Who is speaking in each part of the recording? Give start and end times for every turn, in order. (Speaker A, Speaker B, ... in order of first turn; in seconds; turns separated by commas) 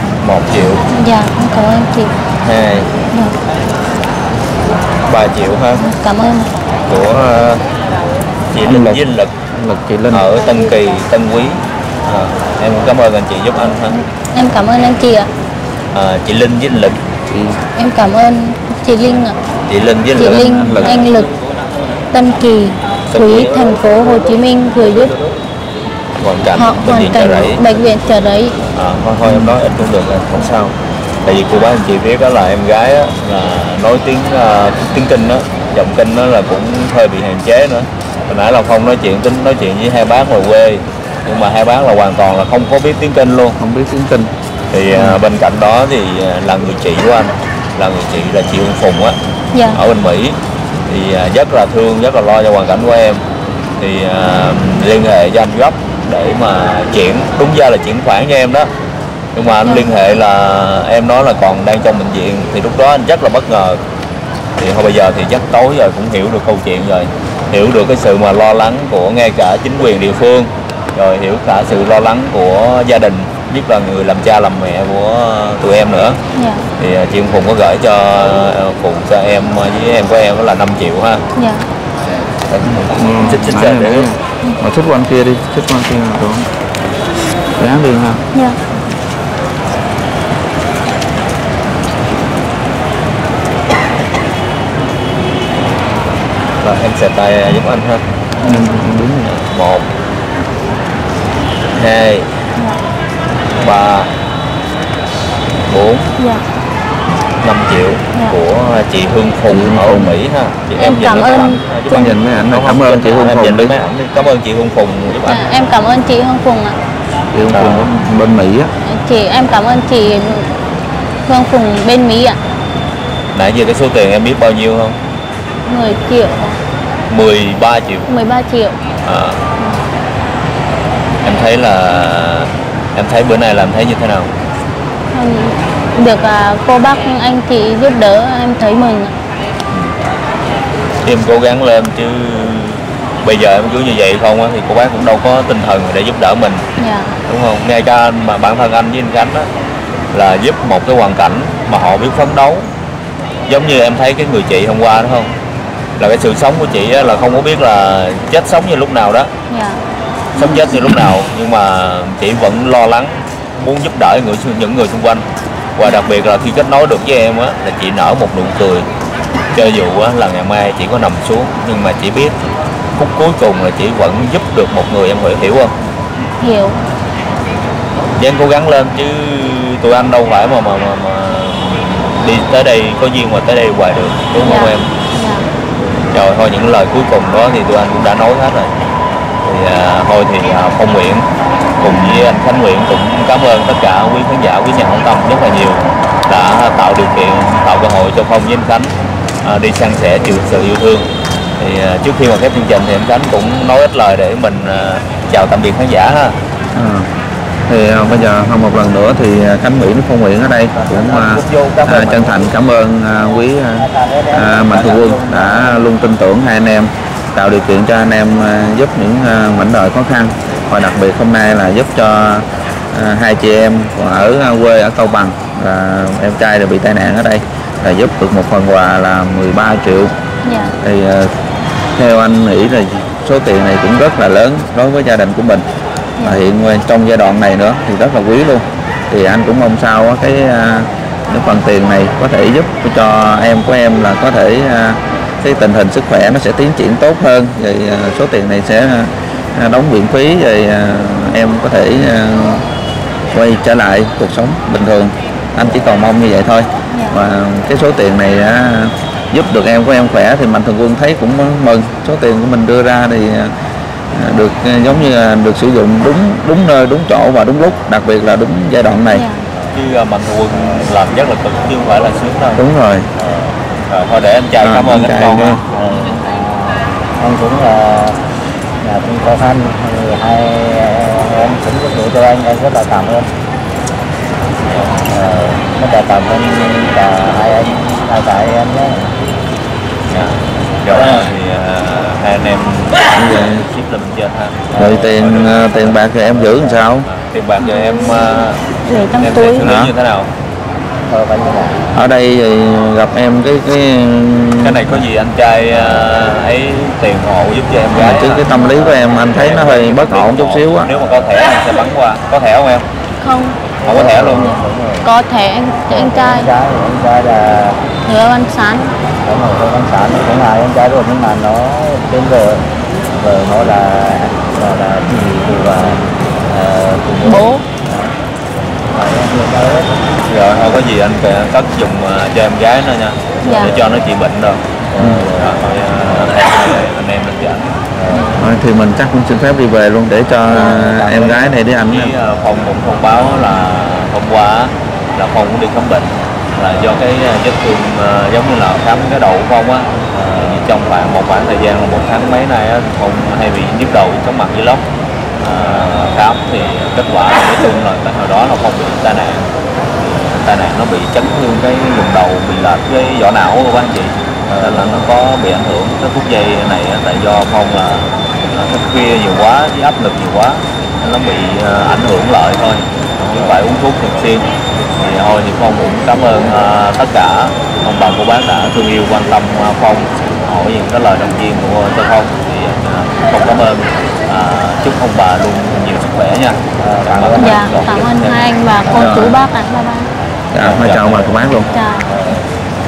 Speaker A: 0.2-0.8, Speaker B: 0.9-2.1, Speaker A: 2.4-2.9, Speaker A: 5.0-5.8, Speaker B: 5.8-6.5, Speaker A: 6.8-7.6, Speaker A: 8.5-9.3, Speaker C: 8.7-9.0, Speaker C: 9.5-10.2, Speaker A: 10.1-13.9, Speaker B: 13.9-15.3, Speaker A: 15.9-17.0, Speaker C: 17.3-17.6, Speaker B: 17.7-19.4, Speaker A: 19.7-21.1, Speaker B: 20.1-21.3, Speaker C: 20.4-21.0, Speaker B: 22.1-25.1, Speaker A: 23.1-23.5, Speaker A: 26.2-27.6, Speaker B: 26.6-28.6, Speaker A: 28.7-43.6, Speaker C: 29.2-29.5, Speaker C: 43.6-44.3, Speaker A: 44.7-49.2, Speaker C: 44.9-45.2, Speaker B: 49.5-49.8, Speaker A: 49.7-53.2, Speaker A: 53.8-58.7, Speaker A: 59.3-63.8, Speaker B: 59.6-59.9, Speaker A: 64.6-76.2, Speaker B: 76.3-76.7, Speaker A: 76.8-81.2, Speaker B: 81.3-81.7, Speaker A: 82.5-84.1, Speaker C: 82.6-86.5, Speaker C: 87.6-88.2, Speaker B: 88.3-88.6, Speaker A: 96.6-98.0, Speaker C: 98.4-99.3, Speaker A: 99.3-99.9, Speaker A: 101.7-102.3, Speaker A: 103.5-104.1, Speaker A: 105.7-106.1, Speaker B: 106.2-106.4, Speaker A: 107.4-115.4, Speaker C: 109.5-110.2, Speaker B: 110.8-111.6, Speaker C: 111.9-113.7, Speaker B: 115.2-116.8, Speaker C: 117.3-118.7, Speaker A: 117.5-117.9, Speaker B: 118.8-120.5, Speaker B: 121.2-122.4, Speaker A: 123.3-125.0, Speaker B: 125.7-126.6, Speaker A: 127.1-128.1, Speaker B: 128.1-128.8, Speaker A: 129.0-129.4, Speaker A: 131.2-134.3, Speaker B: 135.1-139.1, Speaker A: 141.0-146.6, Speaker B: 146.8-147.1, Speaker A: 147.3-149.5, Speaker A: 150.1-152.7, Speaker A: 153.5-155.3, Speaker A: 156.0-159.3, Speaker B: 159.5-159.8, Speaker A: 160.3-165.2, Speaker A: 165.8-168.9, Speaker A: 169.5-172.3, Speaker A: 172.9-175.7, Speaker B: 176.4-176.8, Speaker A: 178.2-184.9, Speaker B: 184.4-185.5, Speaker A: 186.1-188.7, Speaker A: 189.4-191.3, Speaker A: 191.8-206.4, Speaker C: 206.7-207.1, Speaker C: 207.7-230.1, Speaker A: 210.7-212.5, Speaker D: 213.8-215.9, Speaker A: 214.7-215.0, Speaker B: 230.4-230.7, Speaker C: 230.8-231.3, Speaker C: 231.9-235.7, Speaker B: 236.2-236.4, Speaker C: 236.2-252.6, Speaker C: 253.3-263.5, Speaker B: 256.9-257.2, Speaker C: 264.1-269.2, Speaker B: 269.1-269.4, Speaker A: 269.7-272.6, Speaker C: 272.6-273.1, Speaker D: 273.2-273.6, Speaker A: 273.9-275.6, Speaker C: 274.6-275.6, Speaker D: 275.7-276.3, Speaker D: 277.2-278.2, Speaker D: 278.8-283.3, Speaker D: 284.9-289.1, Speaker A: 287.0-287.7, Speaker A: 290.1-296.2, Speaker C: 293.1-293.7, Speaker D: 294.7-295.2, Speaker C: 294.8-297.1, Speaker D: 296.4-296.8, Speaker A: 296.9-300.3, Speaker B: 297.6-298.1, Speaker B: 298.9-299.7, Speaker C: 299.6-299.9, Speaker D: 301.1-301.9, Speaker C: 301.9-305.0, Speaker A: 304.6-312.9, Speaker D: 305.8-306.1, Speaker C: 307.9-310.9, Speaker B: 308.5-308.8, Speaker B: 313.2-313.6, Speaker D: 313.8-315.1, Speaker A: 313.8-314.4, Speaker B: 314.2-316.5, Speaker D: 315.9-317.8, Speaker B: 318.0-318.9, Speaker D: 319.2-328.1, Speaker B: 327.2-327.6, Speaker D: 328.9-330.0, Speaker A: 330.3-334.6, Speaker B: 333.4-333.7, Speaker D: 333.4-334.1, Speaker D: 334.9-336.3, Speaker C: 335.0-335.3, Speaker A: 335.4-337.8, Speaker D: 337.9-338.6, Speaker C: 338.4-342.1, Speaker B: 340.5-340.8, Speaker A: 340.5-354.8, Speaker A: 355.4-388.5, Speaker D: 364.5-365.1, Speaker D: 373.2-373.6, Speaker D: 386.8-388.1, Speaker B: 387.4-390.1, Speaker D: 388.9-389.2, Speaker C: 388.9-389.4, Speaker C: 390.5-391.7, Speaker A: 390.6-391.4, Speaker B: 391.6-392.2, Speaker D: 392.1-392.4